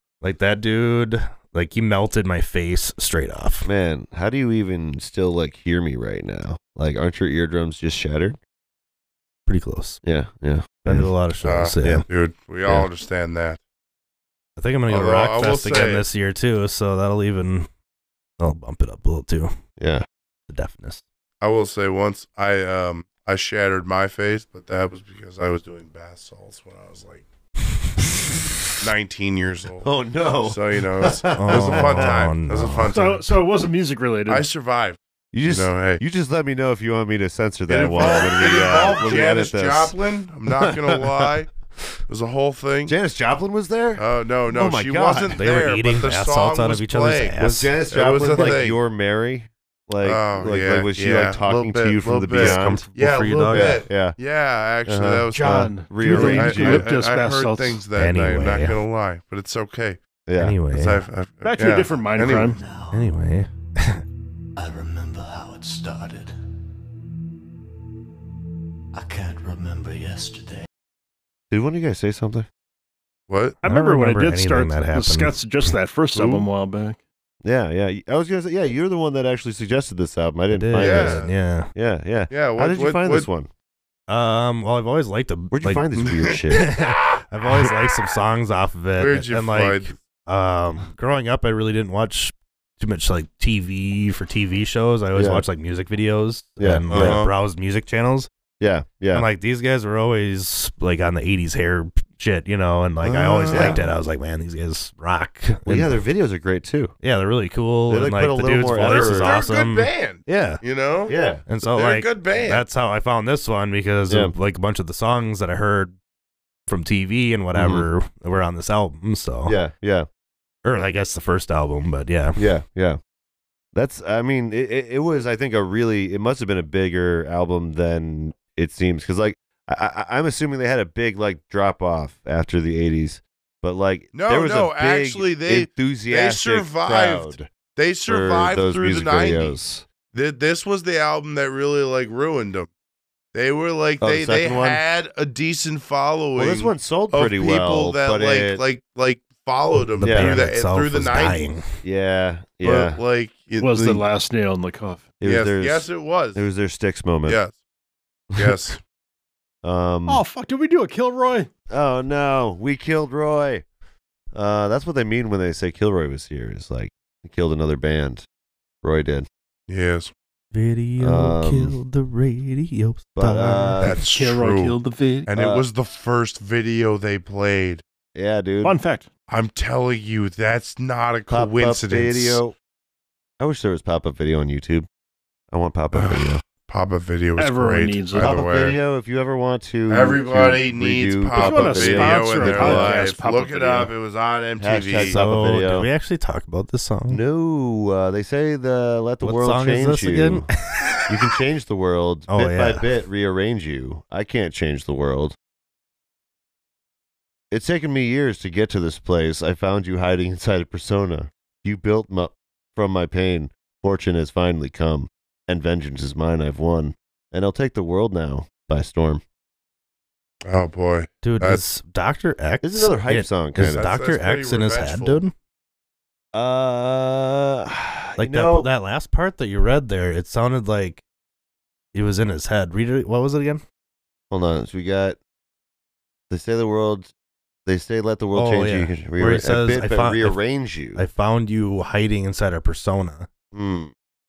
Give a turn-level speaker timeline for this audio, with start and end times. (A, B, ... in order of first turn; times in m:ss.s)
0:00.2-0:03.7 A
0:03.6-0:08.4 B
0:09.5-0:10.0 A
0:10.0-0:11.1 B
0:10.8-0:12.0 A
0:11.4-0:13.6 C
0:14.6-0:17.7 A
0:14.9-0:16.0 C
0:18.4-0:19.5 A
0:19.8-0:20.0 B
0:20.5-0:21.0 A
0:21.4-0:27.2 C
0:28.8-0:29.9 C
0:29.8-0:32.2 B
0:30.4-0:33.4 C
0:31.3-0:32.9 A
0:32.9-0:34.5 D
0:34.3-0:36.0 C
0:35.3-0:39.9 B
0:37.7-0:41.5 C
0:40.6-0:41.3 B
0:42.1-0:42.9 C
0:42.8-0:45.4 B
0:44.0-0:47.4 C
0:45.3-0:47.7 A
0:47.4-0:52.8 B
0:47.9-0:48.8 C
0:50.0-1:00.0 C
0:52.3-0:53.8 A
0:53.5-0:54.2 B
0:54.8-0:56.9 B
0:55.3-0:57.8 D
0:58.0-0:58.8 A
1:00.2-1:00.6 B
1:00.4-1:01.0 A
1:00.7-1:02.6 C
1:01.4-1:02.6 D
1:02.9-1:04.0 A
1:04.6-1:06.2 E
1:09.0-1:10.6 E
1:11.5-1:12.5 B
1:13.3-1:13.6 C
1:13.6-1:17.0 D
1:13.6-1:15.3 A
1:16.1-1:16.5 C
1:17.4-1:23.5 B
1:20.5-1:21.7 A
1:20.8-1:21.3 C
1:22.3-1:23.3 C
1:24.1-1:25.9 A
1:25.5-1:26.6 B
1:26.0-1:27.7 C
1:26.5-1:38.3 A
1:29.0-1:29.9 C
1:35.1-1:35.4 B
1:36.6-1:37.2 B
1:36.9-1:37.3 C
1:38.6-1:39.3 B
1:39.1-1:46.0 A
1:43.0-1:43.8 C
1:43.5-1:43.8 B
1:45.6-1:46.9 B
1:47.0-1:50.6 A
1:47.9-1:49.3 B
1:48.8-1:52.6 C
1:51.1-1:51.4 B
1:51.5-1:55.9 A
1:54.1-1:54.3 B
1:56.7-1:59.6 A
1:57.5-1:57.9 B
1:59.4-2:00.1 B
2:00.6-2:02.4 A
2:02.4-2:03.0 B
2:03.7-2:17.5 B
2:14.1-2:19.6 C
2:18.1-2:19.8 B
2:20.1-2:22.7 C
2:23.3-2:31.5 C
2:24.0-2:24.8 B
2:26.4-2:28.6 B
2:29.7-2:31.6 A
2:30.0-2:30.4 B
2:31.8-2:33.0 B
2:32.6-2:34.0 C
2:33.6-2:35.1 D
2:35.2-2:37.4 B
2:35.2-2:36.5 C
2:37.3-2:37.5 C
2:38.3-2:38.8 C
2:39.6-2:40.2 B
2:40.1-2:41.5 D
2:41.7-2:43.6 B
2:44.3-2:48.2 B
2:48.8-2:49.3 B
2:49.7-2:50.1 C
2:50.5-2:53.8 A
2:51.0-2:51.8 B
2:53.2-2:54.0 B
2:53.8-2:57.8 C
2:54.1-2:55.3 D
2:55.3-2:55.6 B
2:58.1-2:58.8 B
2:58.6-2:59.1 D
2:59.3-3:02.4 C
3:01.3-3:02.5 B
3:03.4-3:04.9 B
3:05.5-3:06.4 B
3:05.9-3:08.8 C
3:07.4-3:08.4 D
3:08.2-3:13.0 B
3:09.9-3:15.2 C
3:11.3-3:13.9 D
3:14.6-3:15.9 B
3:15.0-3:17.2 A
3:17.1-3:20.4 B
3:19.2-3:21.1 A
3:21.1-3:25.4 B
3:22.3-3:22.9 A
3:27.5-3:39.2 B
3:40.4-3:41.6 C
3:41.2-3:45.3 A
3:42.6-3:43.8 B
3:43.6-3:45.2 C
3:46.3-3:48.7 B
3:48.2-3:51.0 A
3:51.9-3:53.6 A
3:54.3-3:55.2 B
3:56.3-3:57.1 B
3:57.6-4:01.0 B
3:58.3-4:00.4 A
4:00.9-4:03.3 A
4:03.5-4:03.9 B